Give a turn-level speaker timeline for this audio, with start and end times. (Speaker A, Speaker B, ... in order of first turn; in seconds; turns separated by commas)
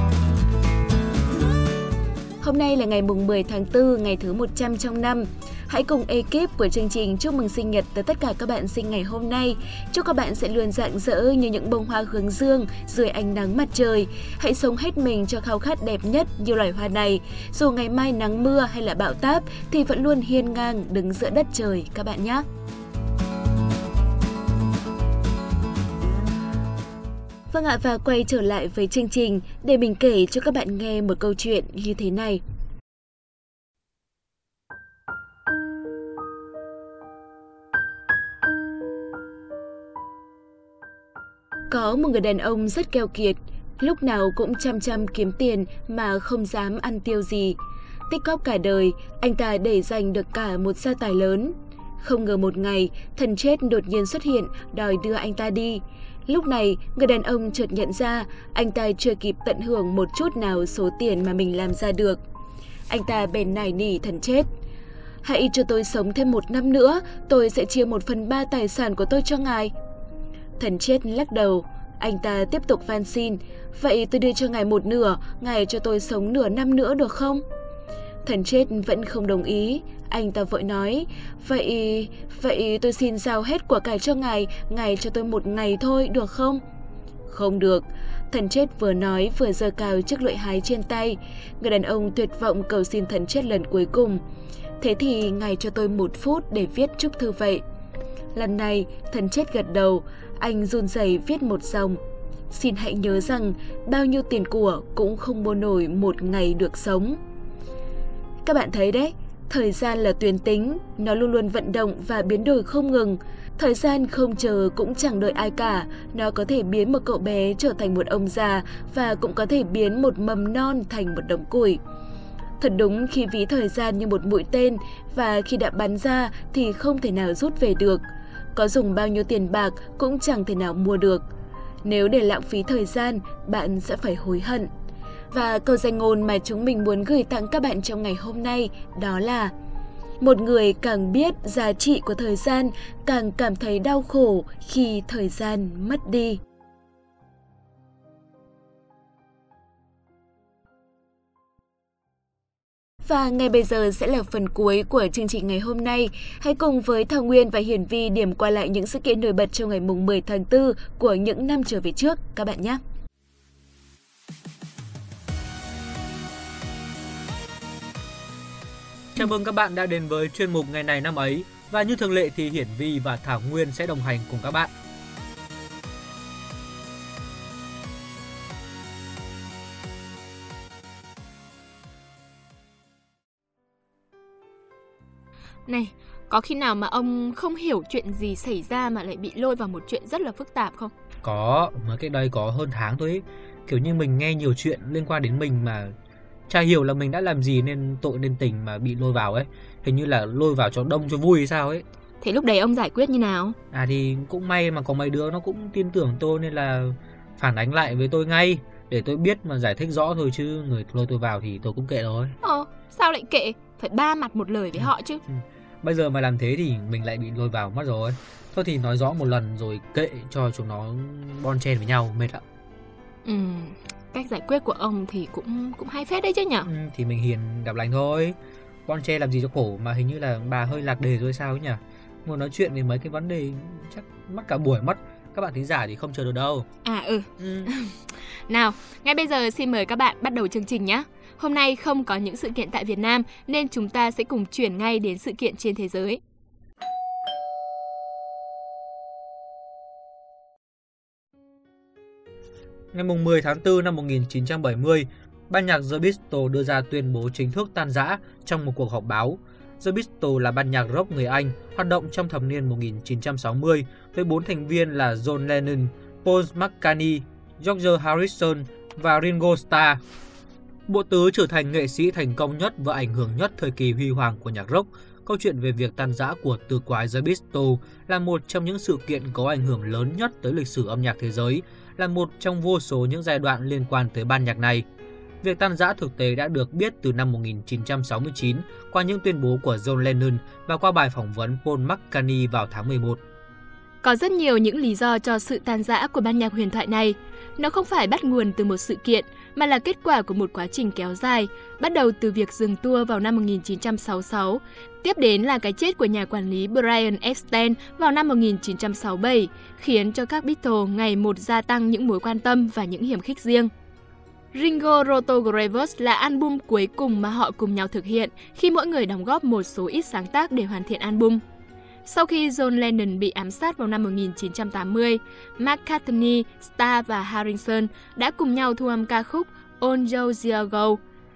Speaker A: 2.4-22.4, Speaker A: 27.5-32.4, Speaker A: 41.7-62.2, Speaker A: 62.9-64.5, Speaker A: 65.2-69.7, Speaker A: 70.6-77.4, Speaker A: 78.2-86.6, Speaker A: 87.3-94.2, Speaker A: 94.8-97.6, Speaker A: 98.3-102.0, Speaker A: 102.5-107.2, Speaker A: 108.4-121.8, Speaker A: 122.6-128.0, Speaker A: 128.5-131.2, Speaker A: 131.8-134.7, Speaker A: 135.3-139.5, Speaker A: 140.2-146.4, Speaker A: 153.0-162.8, Speaker B: 169.2-174.7, Speaker C: 185.7-190.9, Speaker B: 191.2-195.9, Speaker B: 196.5-201.8, Speaker C: 202.2-203.6, Speaker B: 203.7-212.3, Speaker C: 212.4-215.2, Speaker B: 214.8-222.4, Speaker C: 223.2-226.7, Speaker B: 226.6-228.3, Speaker B: 228.9-236.7, Speaker C: 236.8-246.2, Speaker B: 237.4-237.7, Speaker B: 252.9-270.0, Speaker B: 270.9-284.8, Speaker B: 285.4-293.2, Speaker C: 294.0-313.7, Speaker C: 314.5-321.4, Speaker C: 322.0-331.0